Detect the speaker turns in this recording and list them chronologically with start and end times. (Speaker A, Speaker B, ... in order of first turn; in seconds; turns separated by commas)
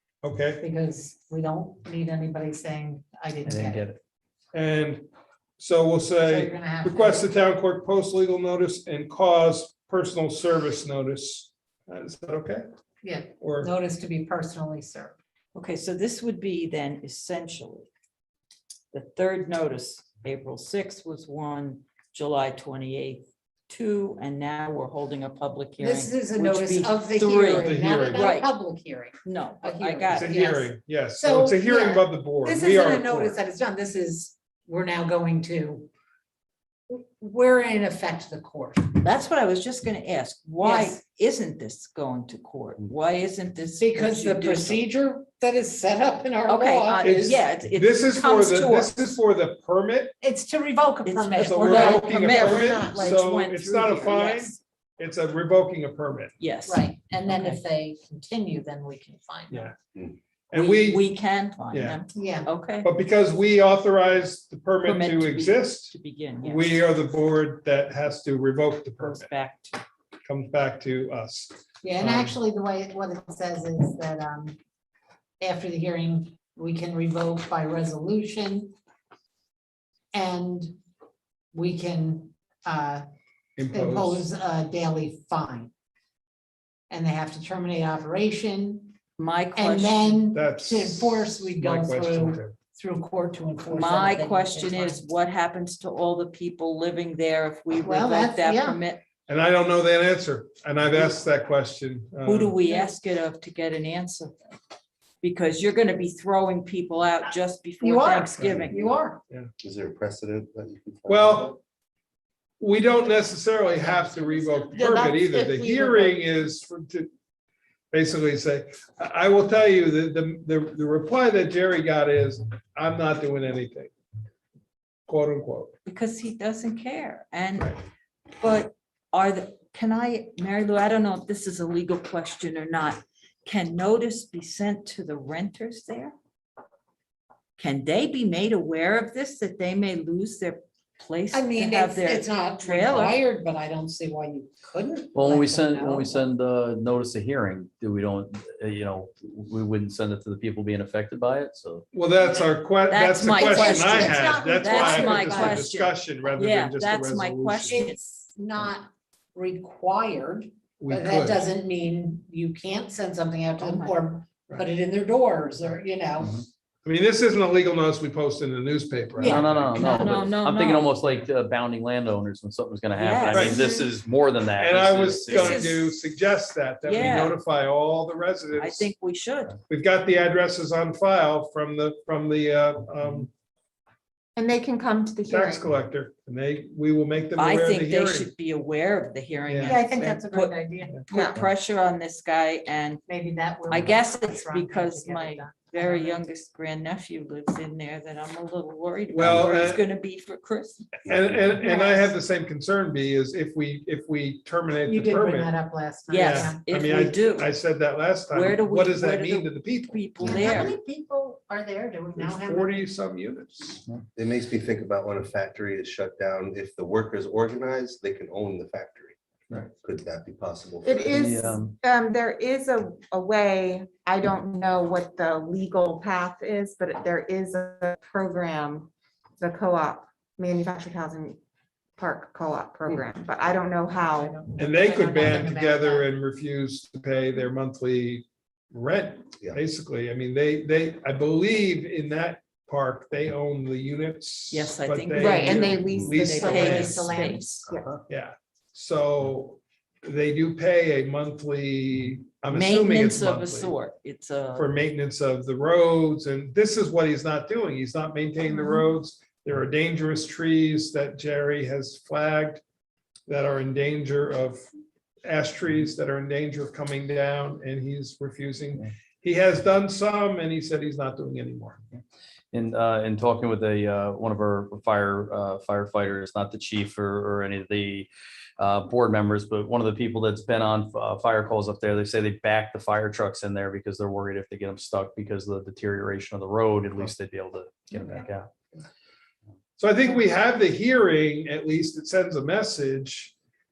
Speaker A: 0.2-0.6, Speaker B: 0.6-3.9, Speaker C: 3.5-4.0, Speaker A: 4.5-5.0, Speaker A: 5.6-12.6, Speaker B: 6.2-7.3, Speaker B: 13.0-15.2, Speaker A: 13.4-13.7, Speaker D: 15.5-17.9, Speaker D: 18.9-28.5, Speaker B: 25.8-35.9, Speaker A: 27.6-28.3, Speaker D: 29.2-30.3, Speaker A: 30.1-33.4, Speaker B: 36.9-38.9, Speaker D: 38.9-44.8, Speaker B: 40.6-41.0, Speaker B: 43.8-47.4, Speaker D: 46.5-49.1, Speaker A: 47.0-50.1, Speaker B: 50.2-52.1, Speaker D: 51.0-54.6, Speaker A: 51.4-56.3, Speaker E: 51.8-53.2, Speaker D: 56.4-57.6, Speaker B: 56.6-59.7, Speaker A: 60.5-61.1, Speaker D: 60.5-62.9, Speaker A: 61.7-62.0, Speaker B: 62.1-62.5, Speaker A: 62.8-69.3, Speaker D: 64.8-66.8, Speaker D: 69.0-69.8, Speaker A: 70.2-72.3, Speaker B: 71.8-74.6, Speaker B: 75.4-78.7, Speaker B: 80.1-80.7, Speaker B: 81.5-83.0, Speaker A: 83.5-84.3, Speaker B: 83.7-85.7, Speaker B: 86.9-88.9, Speaker D: 89.2-90.2, Speaker B: 89.5-95.0, Speaker A: 90.3-92.5, Speaker D: 93.7-99.0, Speaker B: 97.8-98.8, Speaker A: 99.3-102.5, Speaker D: 102.2-104.5, Speaker D: 105.2-108.9, Speaker B: 107.8-109.2, Speaker F: 109.6-111.5, Speaker A: 111.1-111.6, Speaker A: 112.6-117.1, Speaker D: 114.2-114.5, Speaker E: 114.7-116.0, Speaker A: 117.9-123.9, Speaker A: 125.1-125.7, Speaker D: 125.8-127.8, Speaker D: 128.4-136.1, Speaker D: 137.6-143.2, Speaker B: 141.3-146.2, Speaker C: 145.1-151.8, Speaker A: 151.9-157.8, Speaker D: 152.8-158.0, Speaker B: 153.3-155.7, Speaker B: 157.7-166.4, Speaker A: 160.8-161.4, Speaker D: 163.6-164.0, Speaker A: 166.8-170.0, Speaker D: 169.2-170.9, Speaker B: 169.2-170.2, Speaker C: 169.2-175.6, Speaker D: 173.0-173.6, Speaker A: 173.3-173.6, Speaker A: 174.6-178.9, Speaker D: 175.3-176.0, Speaker D: 176.8-177.4, Speaker D: 178.6-179.6, Speaker A: 179.7-183.3, Speaker E: 184.3-185.6, Speaker A: 185.3-188.3, Speaker D: 187.4-190.6, Speaker A: 189.5-189.8, Speaker B: 189.6-191.2, Speaker D: 191.1-193.0, Speaker E: 191.1-191.4, Speaker B: 193.1-196.2, Speaker D: 193.7-200.9, Speaker A: 199.1-199.8, Speaker A: 201.0-205.5, Speaker B: 201.6-202.1, Speaker B: 204.9-206.6, Speaker D: 206.1-207.5, Speaker A: 206.1-210.7, Speaker D: 208.3-210.8, Speaker B: 210.2-212.9, Speaker A: 212.2-213.8, Speaker F: 214.2-221.3, Speaker E: 220.8-231.4, Speaker C: 221.1-221.7, Speaker E: 232.0-234.4, Speaker B: 234.1-236.1, Speaker A: 234.6-247.1, Speaker D: 244.5-247.6, Speaker E: 245.2-247.9, Speaker B: 246.1-247.7, Speaker A: 248.1-253.7, Speaker D: 252.5-254.7, Speaker A: 254.5-262.6, Speaker A: 263.3-264.6, Speaker A: 265.2-271.8, Speaker C: 272.5-288.5, Speaker A: 289.8-293.3